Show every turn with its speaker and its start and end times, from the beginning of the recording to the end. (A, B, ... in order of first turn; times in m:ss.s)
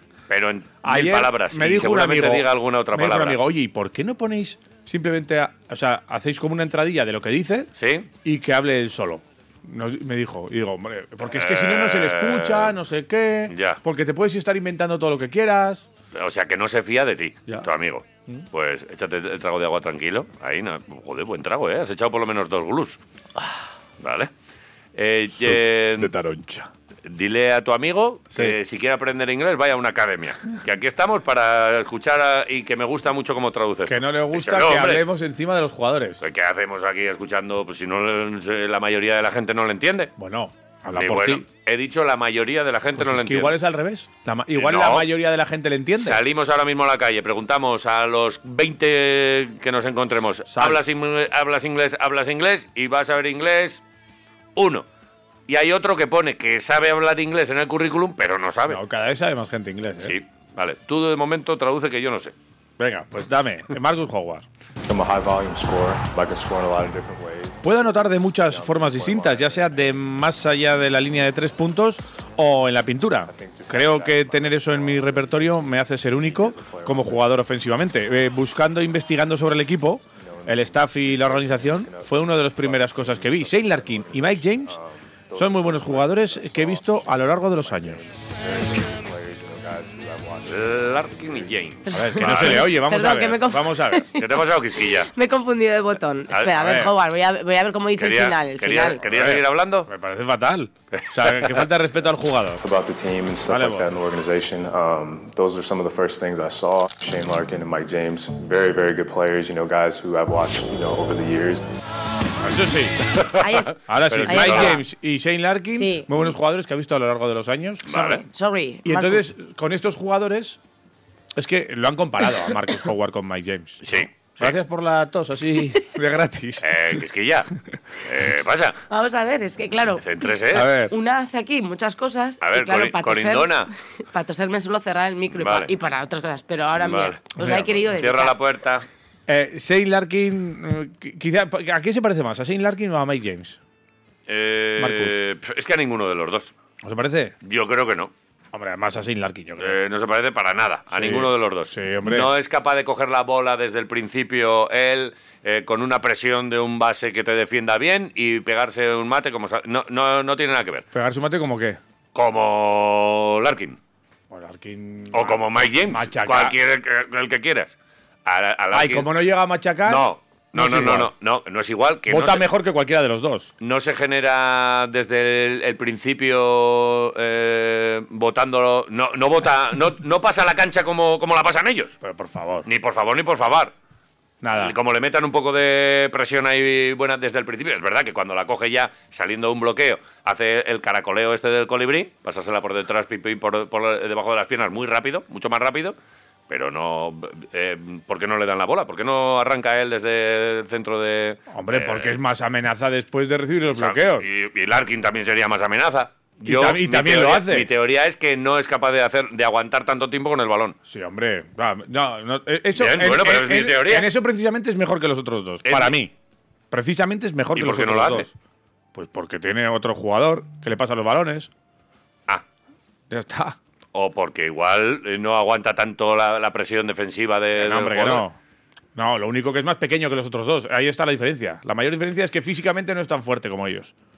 0:00.3-0:03.4 A
0:00.8-0:07.7 B
0:07.8-0:08.1 A
0:08.2-0:15.8 B
0:11.2-0:12.7 A
0:13.5-0:13.8 A
0:16.1-0:23.0 A
0:24.0-0:24.3 A
0:25.0-0:26.1 A
0:25.4-0:26.7 B
0:27.0-0:35.0 A
0:33.9-0:36.2 B
0:36.2-0:40.1 A
0:40.2-0:41.4 B
0:41.0-0:43.6 A
0:43.0-0:46.2 B
0:44.6-0:45.1 A
0:45.9-0:53.8 A
0:50.5-0:50.8 B
0:54.6-0:54.8 A
0:55.5-0:58.8 A
0:58.7-1:00.1 B
1:00.0-1:02.3 A
1:02.8-1:04.4 B
1:04.8-1:10.1 C
1:07.6-1:24.8 B
1:13.2-1:17.4 C
1:20.1-1:31.7 C
1:25.4-1:28.0 B
1:30.4-1:32.7 A
1:31.9-1:39.0 D
1:31.9-1:34.1 B
1:34.2-1:35.1 A
1:36.3-1:36.8 A
1:36.6-1:36.9 B
1:38.0-1:39.9 A
1:39.1-1:42.6 B
1:40.9-1:41.6 A
1:42.6-1:51.6 C
1:43.5-1:43.9 B
1:52.4-1:53.0 B
1:53.2-1:54.8 A
1:53.4-1:54.8 D
1:53.9-1:58.2 B
1:55.7-1:56.1 D
1:57.9-1:58.2 A
1:57.9-1:59.2 D
1:58.8-2:00.6 B
2:01.4-2:06.7 B
2:03.8-2:04.6 A
2:06.6-2:08.8 A
2:08.9-2:10.4 D
2:10.0-2:10.7 A
2:10.5-2:10.9 B
2:10.9-2:18.4 D
2:12.4-2:13.7 A
2:15.3-2:15.7 A
2:16.8-2:18.8 A
2:17.4-2:17.7 B
2:19.3-2:23.6 B
2:24.3-2:26.5 A
2:24.8-2:25.2 B
2:26.8-2:27.3 B
2:27.4-2:28.1 A
2:28.5-2:29.8 B
2:29.6-2:40.8 A
2:30.9-2:32.3 B
2:40.9-2:41.8 B
2:42.1-2:43.8 A
2:44.3-2:46.5 B
2:45.1-2:47.7 A
2:48.2-2:49.1 A
2:48.7-2:51.1 B
2:49.8-2:52.4 A
2:52.1-2:53.5 B
2:53.6-3:02.0 A
3:02.0-3:02.6 B
3:02.6-3:03.7 A
3:04.4-3:04.7 B
3:04.6-3:16.0 A
3:16.5-3:22.2 A
3:21.5-3:24.3 B
3:23.7-3:30.8 A
3:26.4-3:27.7 B
3:30.9-3:36.1 B
3:32.8-3:34.1 A
3:35.6-3:36.0 A
3:36.7-3:38.3 B
3:37.5-3:38.3 A
3:38.9-3:41.5 B
3:43.1-3:43.6 B
3:43.9-3:48.2 A
3:47.6-3:48.4 B
3:49.0-3:53.9 B